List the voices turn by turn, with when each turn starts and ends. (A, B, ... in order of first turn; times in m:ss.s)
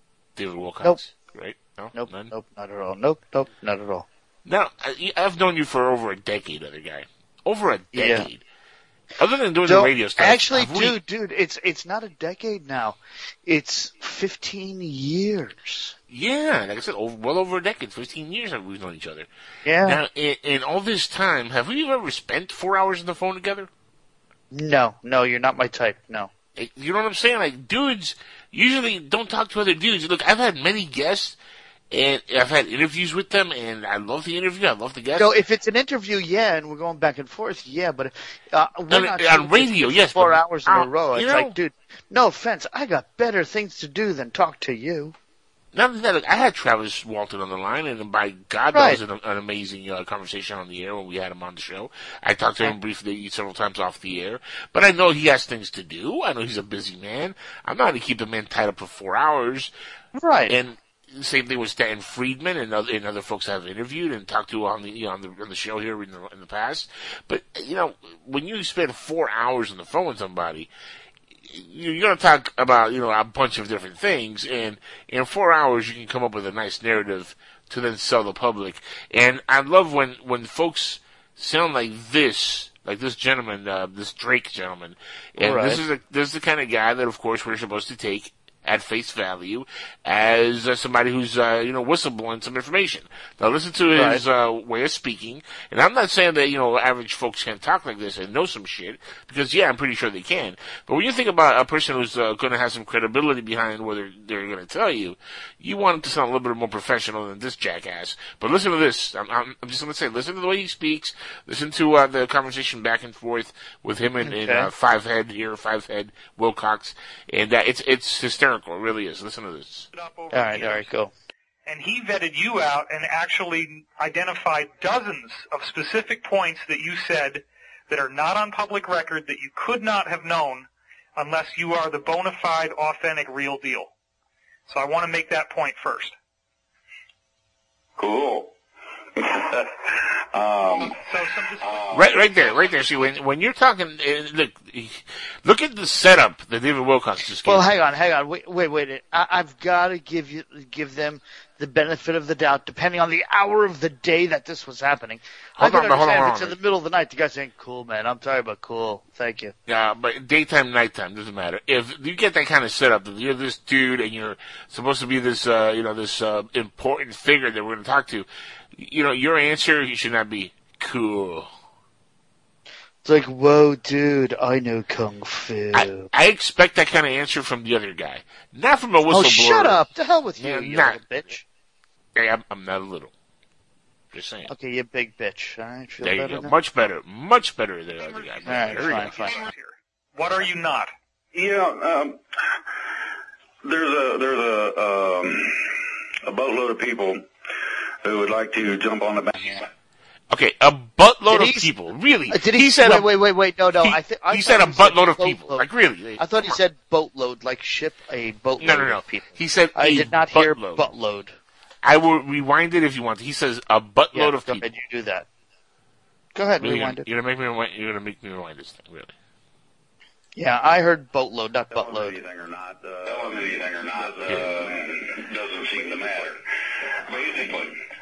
0:00.4-0:02.3 A
0:01.9-0:04.1 B
0:04.4-0:08.4 A
0:07.9-0:08.3 B
0:09.2-0:11.0 A
0:09.6-0:16.0 B
0:16.1-0:19.3 A
0:19.6-0:20.0 B
0:19.8-0:23.7 A
0:24.5-0:26.3 B
0:26.6-0:31.4 A
0:31.9-0:35.4 A
0:35.2-0:45.1 B
0:38.9-0:41.5 A
0:45.7-0:59.7 A
0:48.7-0:49.0 B
1:00.2-1:00.6 B
1:00.5-1:10.7 A
1:11.4-1:59.9 A
1:25.4-1:25.8 B
1:33.9-1:34.2 B
1:54.2-1:54.7 B
1:59.9-2:00.9 C
2:00.3-2:01.1 B
2:01.6-2:13.9 C
2:14.7-2:16.1 C
2:18.0-2:18.5 D
2:19.2-2:21.0 D
2:20.9-2:22.3 C
2:21.6-2:22.2 D
2:21.9-2:27.7 A
2:27.4-2:39.5 B
2:35.6-2:36.6 A
2:39.7-2:51.5 A
2:53.0-2:56.1 B
2:55.7-2:59.8 A
2:59.1-3:01.4 B
3:00.4-3:01.0 A
3:02.2-3:03.1 A
3:04.1-3:04.5 A
3:04.5-3:06.5 B
3:06.0-3:09.3 A
3:08.0-3:10.9 C
3:08.4-3:09.5 B
3:11.3-3:12.2 D
3:13.6-3:15.7 D
3:16.2-3:17.2 D
3:18.0-3:19.7 D
3:20.3-3:23.1 A
3:21.3-3:21.7 B
3:22.3-3:25.7 B
3:23.7-3:26.6 A
3:26.2-3:31.4 B
3:28.6-3:30.9 A
3:31.8-3:34.7 A
3:34.1-3:35.2 B
3:36.3-3:37.1 B
3:36.6-3:39.1 A
3:40.4-3:42.2 B
3:41.7-3:46.4 D
3:44.3-3:44.5 A
3:47.0-3:47.8 D